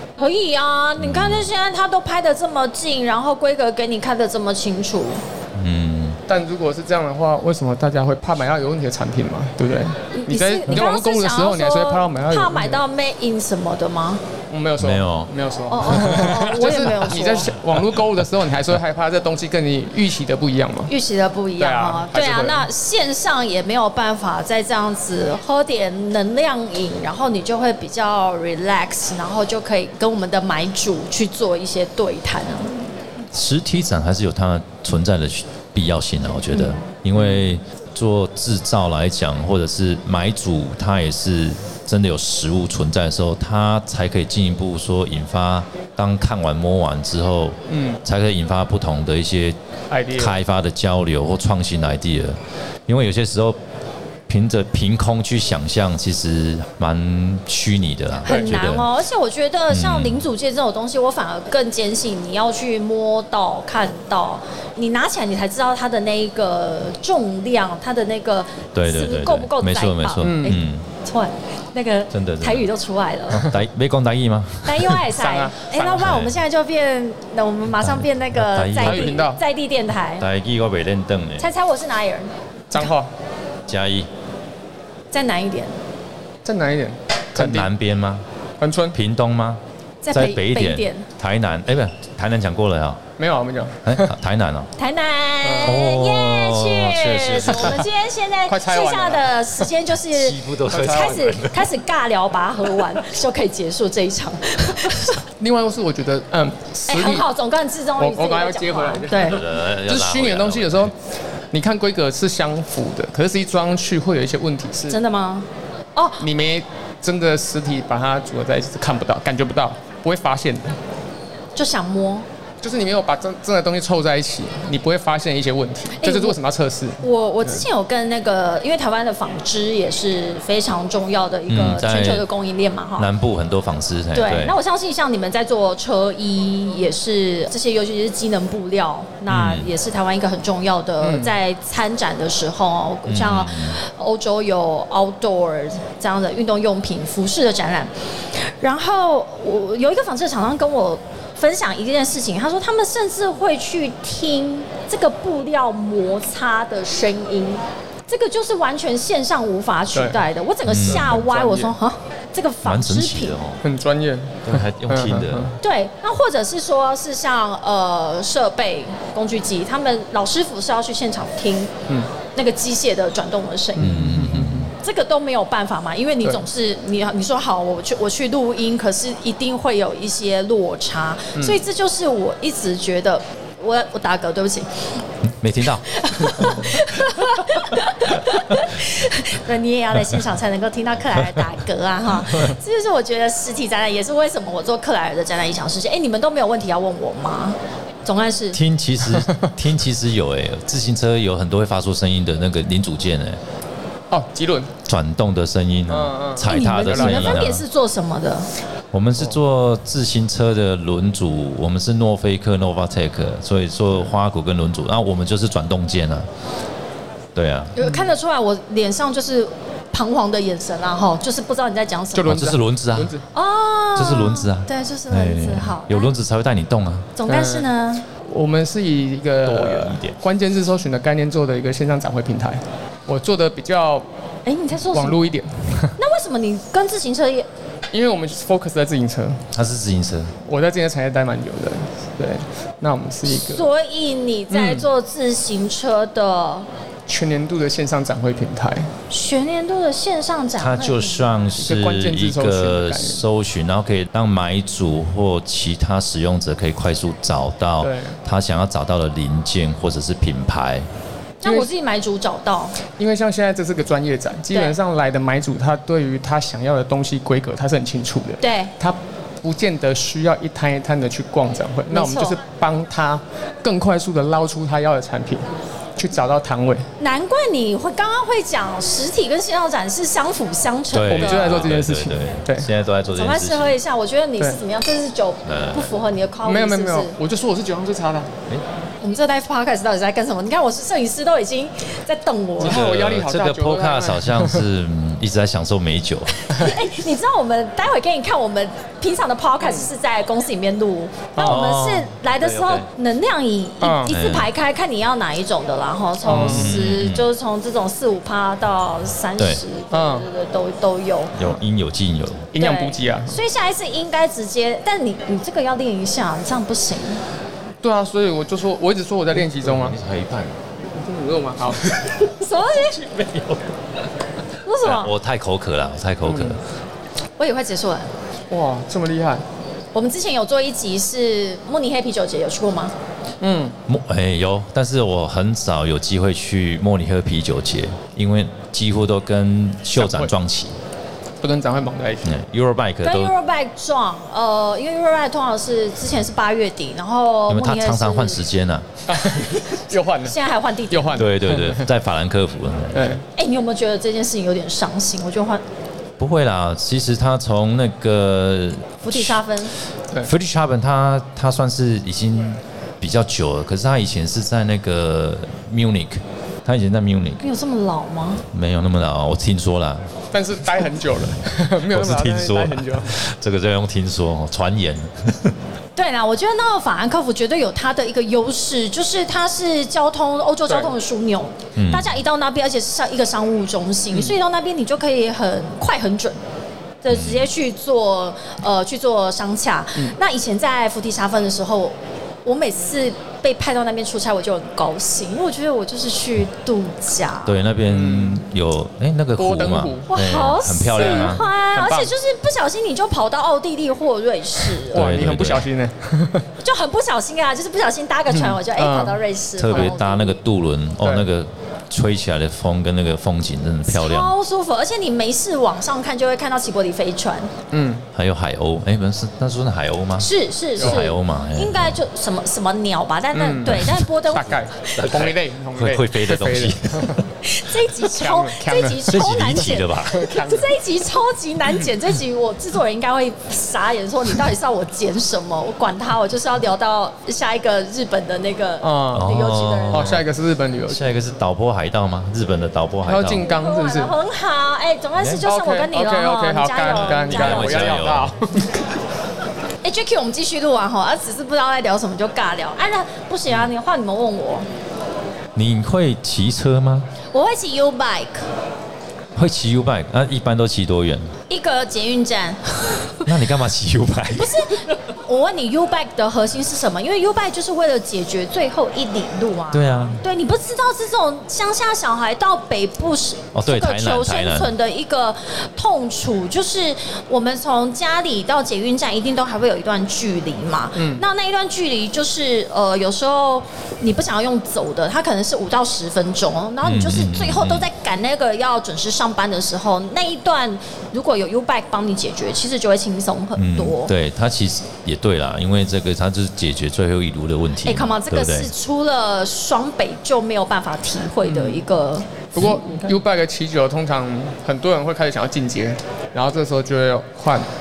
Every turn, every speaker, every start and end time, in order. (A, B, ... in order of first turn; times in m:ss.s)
0:00.2-0:05.2 A
0:01.0-0:01.5 B
0:05.6-0:06.2 B
0:06.3-0:12.8 C
0:10.1-0:14.2 A
0:14.5-0:20.9 C
0:14.8-0:15.3 B
0:15.7-0:17.5 A
0:15.9-0:16.3 B
0:20.9-0:32.8 A
0:21.6-0:22.7 C
0:33.3-0:49.6 B
0:36.5-0:36.8 A
0:47.7-0:48.0 C
0:49.9-0:50.4 C
0:50.2-0:53.6 B
0:54.3-0:58.9 B
0:58.2-1:13.5 A
0:58.3-0:58.5 C
0:59.7-1:00.2 B
1:08.7-1:10.8 B
1:10.2-1:10.6 C
1:12.1-1:12.7 B
1:13.3-1:15.0 B
1:14.6-1:20.2 A
1:15.0-1:16.1 C
1:16.0-1:16.3 B
1:17.8-1:19.2 B
1:18.8-1:19.4 C
1:20.2-1:21.5 B
1:21.4-1:22.9 A
1:22.7-1:23.1 C
1:23.7-1:24.1 B
1:25.1-1:25.8 A
1:26.4-1:27.7 C
1:27.4-1:28.2 B
1:28.6-1:29.0 C
1:28.9-1:29.6 B
1:30.0-1:31.1 A
1:30.1-1:33.0 B
1:33.2-1:34.1 C
1:33.8-1:34.7 B
1:34.8-1:45.2 A
1:35.4-1:35.8 C
1:35.6-1:37.9 B
1:38.5-1:39.7 C
1:40.1-1:41.7 B
1:40.7-1:41.3 C
1:45.4-1:47.3 C
1:46.9-1:49.4 A
1:48.0-1:50.9 C
1:49.1-1:50.9 B
1:51.5-1:55.0 C
1:54.9-1:56.2 A
1:56.2-2:00.8 C
2:01.6-2:02.2 A
2:02.6-2:07.6 C
2:06.0-2:06.4 A
2:07.0-2:13.1 A
2:11.5-2:12.3 B
2:13.0-2:14.6 B
2:14.1-2:43.4 A
2:19.3-2:19.7 B
2:21.0-2:21.3 C
2:23.1-2:23.8 B
2:39.9-2:40.2 C
2:40.7-2:41.2 B
2:40.8-2:41.7 C
2:42.6-2:43.6 B
2:43.6-2:45.5 C
2:44.5-2:45.6 B
2:45.6-2:51.7 A
2:52.3-2:53.9 A
2:53.8-2:54.7 C
2:53.8-2:54.7 B
2:54.8-3:04.7 A
3:01.4-3:01.6 C
3:05.2-3:06.7 B
3:05.9-3:18.6 A
3:11.2-3:11.4 B
3:18.5-3:23.4 B
3:19.1-3:19.5 C
3:24.1-3:24.7 C
3:24.8-3:27.6 B
3:25.9-3:27.4 C
3:26.5-3:28.5 A
3:28.9-3:36.3 B
3:37.4-3:37.8 B
3:37.8-3:42.4 A
3:42.1-3:43.2 C
3:42.3-3:43.1 B
3:43.3-3:46.1 A
3:44.0-3:47.1 B
3:47.2-3:48.1 A
3:47.3-3:47.7 C
3:48.2-3:54.1 C
3:49.4-3:50.2 B
3:54.5-3:55.2 A
3:54.9-3:56.0 C
3:56.0-3:57.5 A
3:57.9-3:59.4 C
3:59.5-4:00.3 B
4:00.5-4:03.7 C
4:03.2-4:06.7 A
4:04.5-4:04.9 C
4:07.1-4:08.9 C
4:09.1-4:11.2 A
4:10.6-4:20.9 B
4:11.6-4:13.2 C
4:17.8-4:18.2 C
4:21.4-4:22.8 A
4:21.4-4:21.7 C
4:23.0-4:36.9 C
4:28.4-4:28.7 A
4:31.9-4:32.4 A
4:37.0-4:41.7 A
4:40.9-4:43.8 B
4:41.1-4:42.7 C
4:43.1-4:47.2 A
4:45.4-4:46.0 B
4:46.4-4:48.3 C
4:49.0-4:52.8 A
4:52.6-4:54.6 C
4:52.6-4:56.3 B
4:56.4-5:11.4 A
4:59.6-4:59.9 C
5:01.4-5:01.6 C
5:01.4-5:02.9 B
5:03.8-5:04.2 C
5:04.1-5:04.5 B
5:06.2-5:06.7 C
5:06.4-5:07.3 B
5:09.9-5:10.3 C
5:11.4-5:12.5 B
5:12.5-5:13.4 C
5:12.6-5:17.2 A
5:17.8-5:20.0 C
5:19.3-5:20.6 B
5:21.0-5:22.1 C
5:22.4-5:23.0 A
5:22.8-5:23.6 B
5:24.6-5:25.1 A
5:24.8-5:26.6 B
5:26.3-5:26.6 C
5:27.4-5:28.1 A
5:28.5-5:29.4 C
5:29.9-5:32.9 A
5:33.4-5:33.8 C
5:33.9-5:40.8 B
5:40.0-5:40.3 C
5:41.4-5:42.3 C
5:42.2-5:43.3 B
5:43.0-5:48.4 A
5:47.5-5:48.9 B
5:49.1-5:50.4 C
5:50.2-5:51.3 A
5:50.9-5:51.9 C
5:51.2-5:53.2 B
5:52.9-5:53.2 C
5:53.4-5:55.6 A
5:56.2-5:59.4 B
5:59.0-5:59.8 A
6:00.2-6:07.4 B
6:07.4-6:08.5 A
6:08.5-6:10.1 B
6:10.3-6:13.1 C
6:11.9-6:15.6 B
6:16.0-6:26.4 A
6:20.7-6:20.9 C
6:21.8-6:22.2 B
6:24.1-6:24.4 C
6:27.0-6:37.6 A
6:27.1-6:27.5 B
6:37.4-6:41.5 B
6:37.9-6:38.4 C
6:39.4-6:40.1 C
6:40.1-6:45.2 A
6:40.9-6:42.1 C
6:44.8-6:46.5 C
6:44.9-6:45.7 B
6:46.6-6:50.4 A
6:48.3-6:49.2 C
6:49.6-6:54.3 B
6:51.0-6:51.3 C
6:53.9-6:57.5 A
6:57.7-6:58.0 C
6:58.2-7:02.0 B
7:00.2-7:05.0 A
7:00.8-7:01.0 C
7:03.3-7:07.2 C
7:03.7-7:04.1 B
7:05.0-7:07.2 B
7:07.4-7:20.2 A
7:08.0-7:10.7 C
7:09.1-7:10.3 B
7:18.8-7:19.3 C
7:19.1-7:20.2 B
7:19.9-7:21.0 C
7:20.9-7:23.4 B
7:23.1-7:24.1 C
7:23.4-7:28.0 A
7:25.2-7:25.5 B
7:25.4-7:28.8 C
7:26.9-7:28.4 B
7:29.8-7:34.7 A
7:35.6-7:37.1 B
7:37.3-7:38.5 A
7:39.4-7:41.3 B
7:41.5-7:43.3 A
7:43.3-7:44.9 B
7:44.3-8:14.1 A
7:49.7-7:50.2 B
7:53.5-7:54.7 B
8:01.0-8:01.2 C
8:06.8-8:07.9 B
8:13.6-8:18.7 B
8:17.8-8:23.0 A
8:21.4-8:21.8 C
8:22.6-8:27.7 C